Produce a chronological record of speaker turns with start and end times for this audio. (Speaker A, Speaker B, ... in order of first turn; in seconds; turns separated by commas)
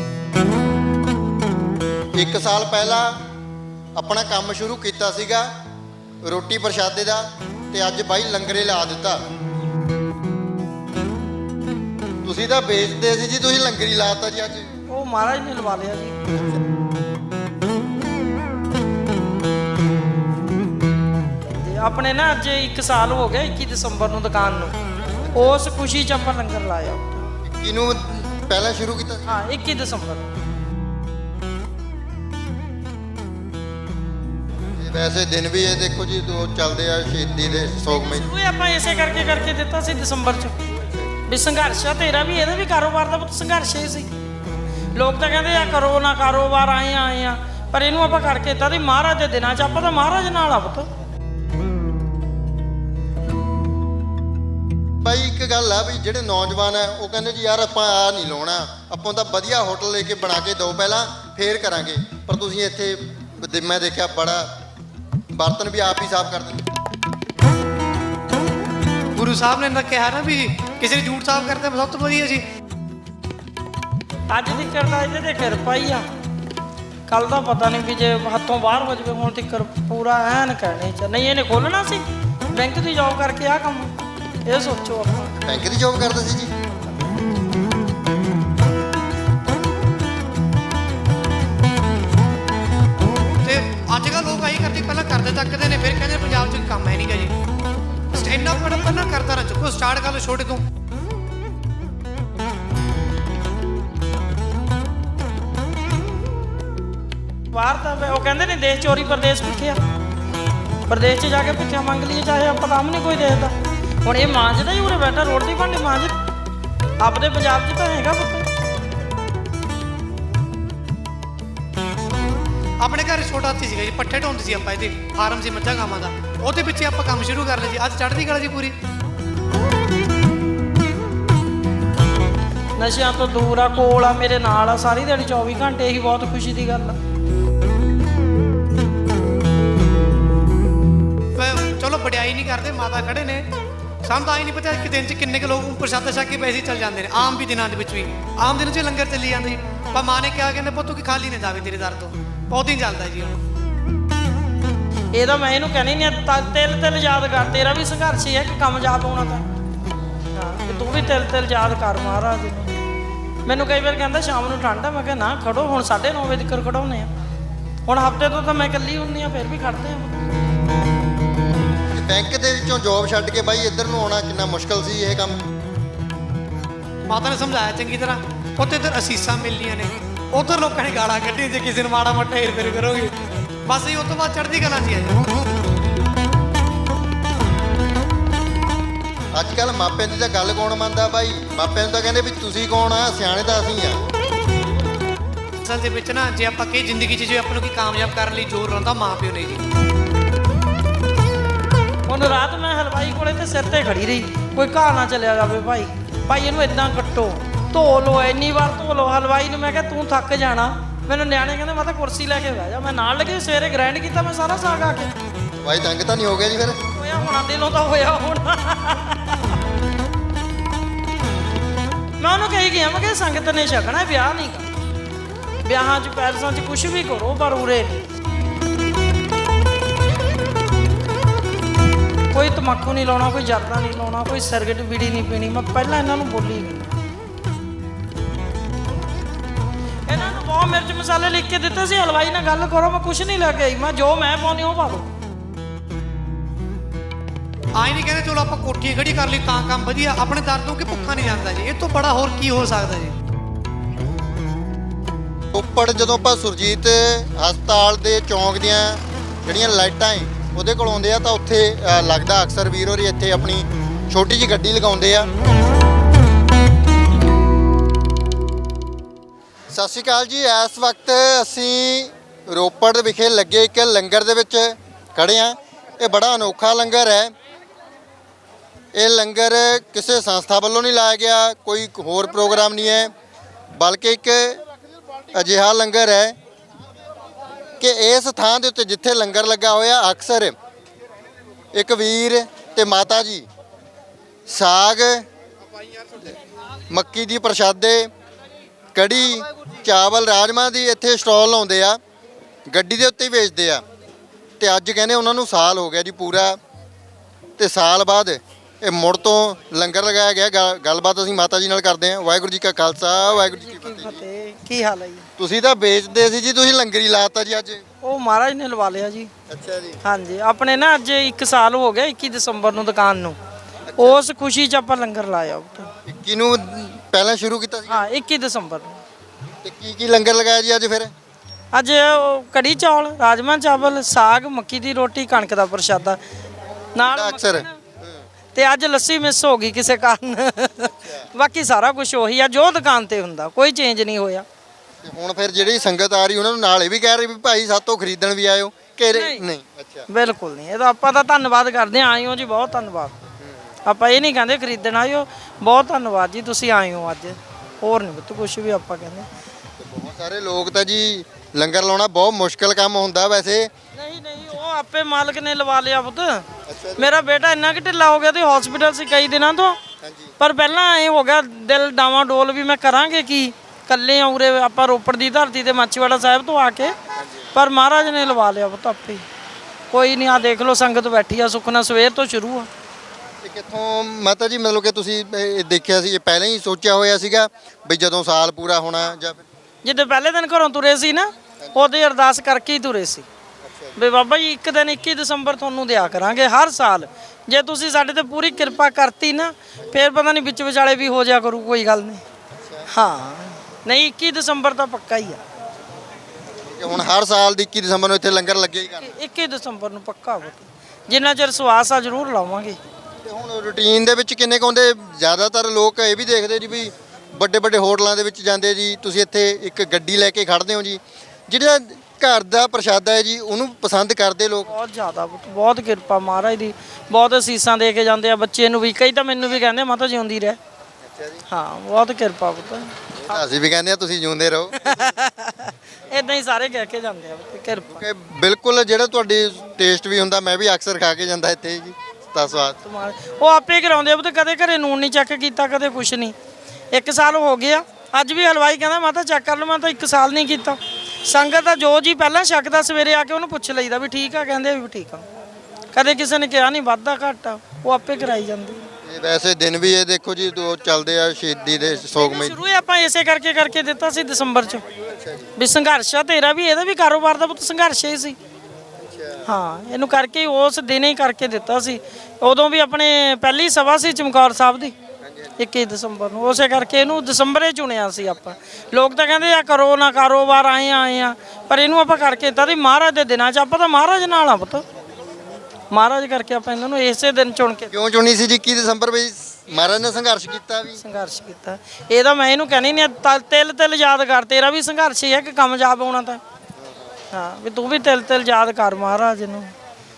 Speaker A: 2.1-3.2, Speaker A: 3.9-5.5, Speaker A: 6.2-9.2, Speaker A: 12.2-14.7, Speaker B: 14.9-16.2, Speaker B: 21.4-24.7, Speaker B: 25.3-27.3, Speaker A: 27.4-29.3, Speaker B: 29.3-30.3, Speaker A: 34.8-38.3, Speaker B: 38.1-40.6, Speaker B: 41.3-44.1, Speaker B: 44.9-50.9, Speaker A: 55.0-64.5, Speaker A: 65.3-66.7, Speaker C: 69.1-72.5, Speaker B: 74.3-76.0, Speaker B: 77.1-83.9, Speaker B: 84.5-85.4, Speaker A: 85.4-86.5, Speaker C: 93.4-97.4, Speaker C: 98.1-100.6, Speaker B: 107.5-109.8, Speaker B: 110.9-116.1, Speaker B: 117.0-118.5, Speaker C: 122.8-128.8, Speaker B: 132.8-137.0, Speaker C: 141.3-143.5, Speaker C: 144.0-153.4, Speaker B: 155.1-159.4, Speaker B: 160.3-162.8, Speaker B: 163.4-167.1, Speaker B: 167.8-170.1, Speaker A: 171.9-175.4, Speaker C: 177.1-185.2, Speaker A: 189.3-194.0, Speaker C: 195.6-199.6, Speaker B: 202.1-215.1, Speaker A: 215.6-216.8, Speaker B: 216.9-219.5, Speaker B: 222.2-224.7, Speaker B: 225.6-228.1, Speaker B: 232.3-237.0, Speaker B: 240.1-245.1, Speaker C: 247.7-253.1, Speaker A: 255.5-265.3, Speaker A: 269.7-277.3, Speaker A: 278.9-283.1, Speaker A: 283.7-284.6, Speaker A: 285.3-286.4, Speaker A: 287.8-290.5, Speaker A: 291.7-293.5, Speaker A: 294.5-295.3, Speaker A: 296.9-298.1, Speaker A: 298.9-302.0, Speaker A: 302.7-303.8, Speaker A: 304.6-306.6, Speaker A: 307.6-314.2, Speaker B: 313.4-315.3, Speaker A: 315.4-317.8, Speaker B: 318.0-319.3, Speaker A: 319.5-320.0, Speaker B: 320.0-323.4, Speaker A: 323.9-324.2, Speaker B: 323.9-325.9, Speaker A: 326.0-328.1, Speaker B: 327.9-329.0, Speaker A: 329.6-331.1, Speaker B: 331.7-336.2, Speaker B: 336.9-337.8, Speaker A: 337.0-337.6, Speaker B: 338.5-344.4, Speaker A: 340.8-341.2, Speaker A: 345.0-350.1, Speaker B: 349.1-349.4, Speaker B: 350.1-353.2, Speaker B: 353.9-359.3, Speaker A: 359.8-363.7, Speaker B: 363.9-369.8, Speaker A: 366.6-367.1, Speaker A: 370.0-370.3, Speaker B: 370.4-376.9, Speaker A: 377.1-377.4, Speaker B: 377.5-379.2, Speaker B: 379.9-382.7, Speaker A: 383.4-389.4, Speaker B: 389.8-393.2, Speaker A: 393.6-393.9, Speaker B: 393.9-402.2, Speaker B: 402.9-405.4, Speaker A: 406.6-409.1, Speaker B: 409.0-412.8, Speaker A: 413.2-424.7, Speaker B: 424.7-430.6, Speaker A: 431.1-431.4, Speaker B: 431.5-433.4, Speaker A: 433.2-434.8, Speaker B: 434.8-438.1, Speaker A: 438.0-442.8, Speaker B: 442.8-446.3, Speaker B: 446.9-455.2, Speaker B: 455.9-458.9, Speaker A: 459.0-462.6, Speaker B: 462.1-464.8, Speaker A: 465.0-465.5, Speaker B: 465.6-468.4, Speaker A: 469.0-469.4, Speaker B: 469.4-474.9, Speaker B: 475.6-484.8, Speaker B: 485.9-487.9, Speaker A: 487.9-491.0, Speaker B: 491.0-496.4, Speaker B: 497.3-499.7